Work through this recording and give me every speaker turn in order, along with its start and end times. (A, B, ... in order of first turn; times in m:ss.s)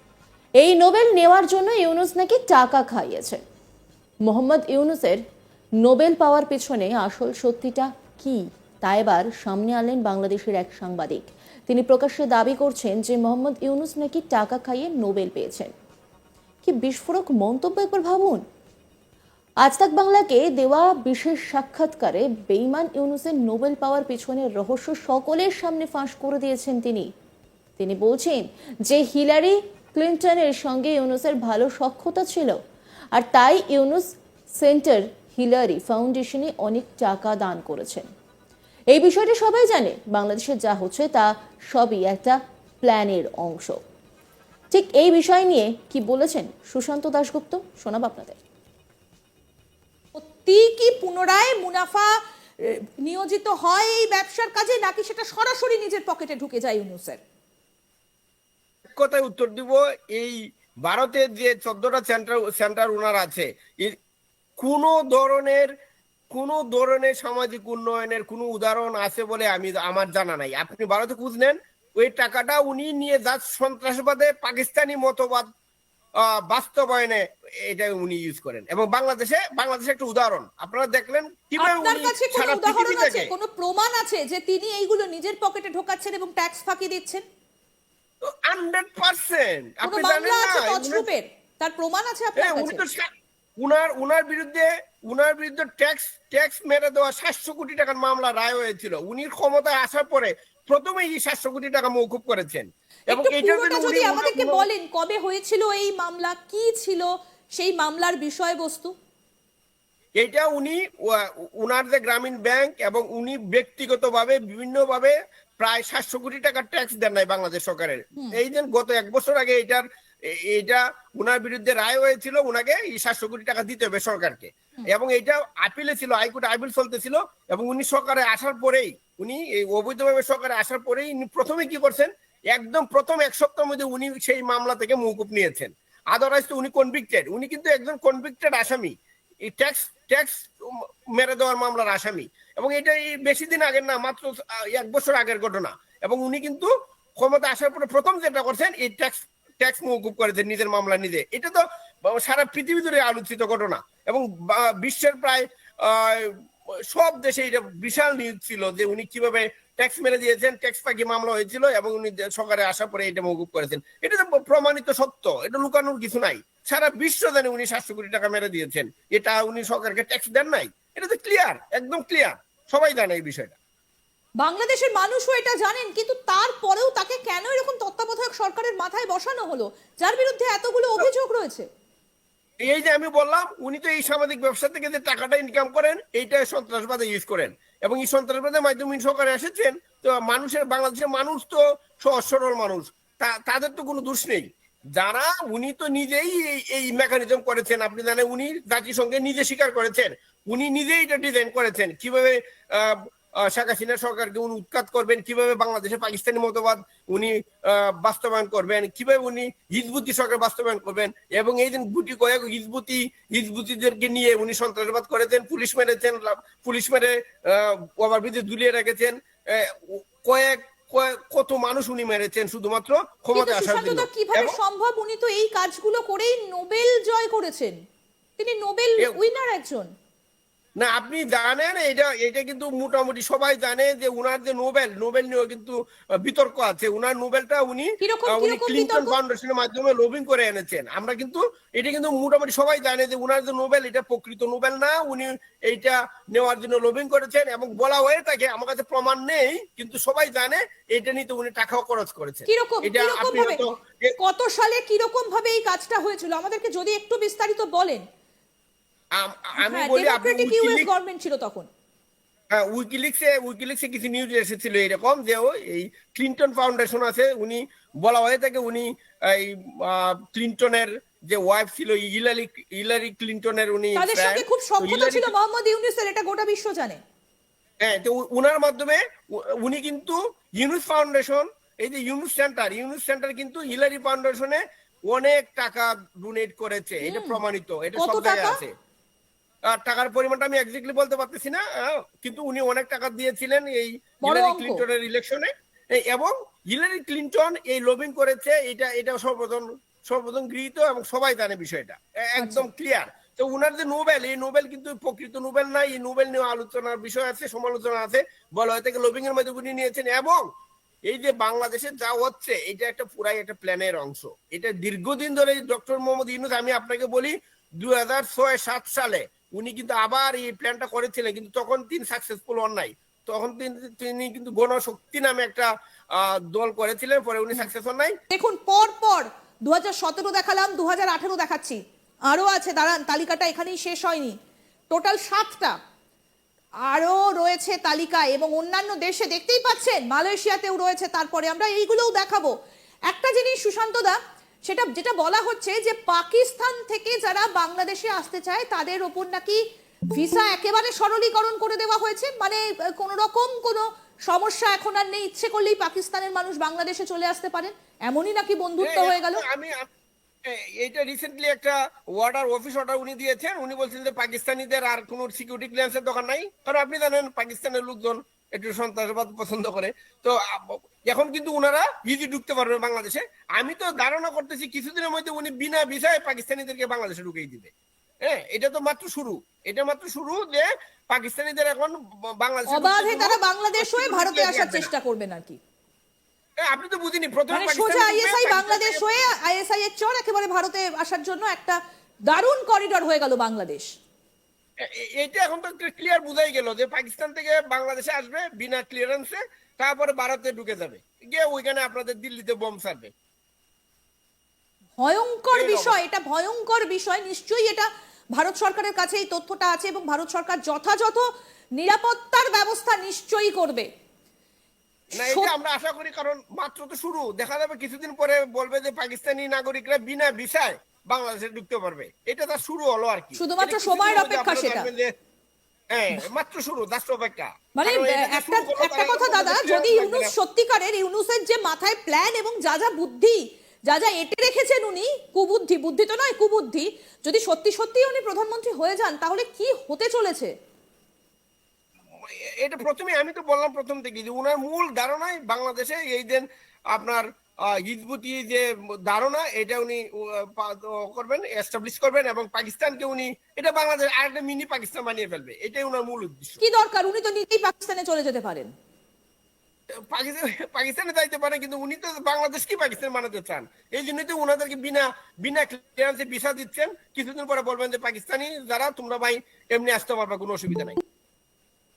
0:00.6-0:03.4 A
0:04.3-0:05.2 A
0:05.8-0:15.7 A
0:16.6-0:18.4 A
0:19.6-0:27.1 A
0:27.8-0:32.6 A
0:33.2-0:38.1 A
0:39.0-0:43.8 A
0:44.7-0:48.4 A
0:50.2-0:52.1 B
0:52.6-0:57.2 B
0:58.9-1:04.0 C
1:04.6-1:05.7 C
1:06.3-1:15.5 C
1:16.5-1:23.3 C
1:21.6-1:27.2 B
1:28.2-1:31.0 C
1:29.8-1:32.8 B
1:32.4-1:33.1 C
1:33.6-1:44.7 C
1:43.1-1:48.9 B
1:50.2-2:18.9 C
2:19.5-2:36.4 C
2:36.9-2:53.6 C
2:54.4-3:01.7 B
3:02.6-3:14.5 C
3:15.0-3:44.6 C
3:43.4-3:47.8 B
3:48.4-3:49.9 B
3:50.8-4:14.2 C
3:58.0-3:59.2 B
4:12.5-4:13.6 B
4:14.2-4:18.0 B
4:19.2-4:20.9 C
4:19.6-4:21.7 B
4:22.5-4:35.3 C
4:34.0-4:37.0 B
4:37.8-4:48.7 C
4:47.0-4:47.4 B
4:48.0-4:48.6 B
4:49.7-5:10.4 C
4:54.2-4:54.8 B
5:02.4-5:02.7 B
5:11.1-5:28.2 C
5:28.3-5:34.4 B
5:34.9-5:35.8 B
5:36.9-5:42.5 B
5:43.1-5:49.6 B
5:50.2-5:59.4 B
5:58.8-5:59.9 C
6:00.5-6:17.7 C
6:18.2-6:24.9 C
6:22.7-6:25.6 B
6:26.6-6:29.0 C
6:27.5-6:33.9 B
6:34.8-6:43.1 C
6:45.0-6:53.9 B
6:45.5-6:46.0 C
6:55.2-7:05.1 C
6:55.2-6:55.5 B
7:03.4-7:04.9 B
7:05.9-7:10.3 C
7:07.8-7:20.5 B
7:22.3-7:36.6 C
7:36.6-7:38.7 B
7:40.1-7:51.0 C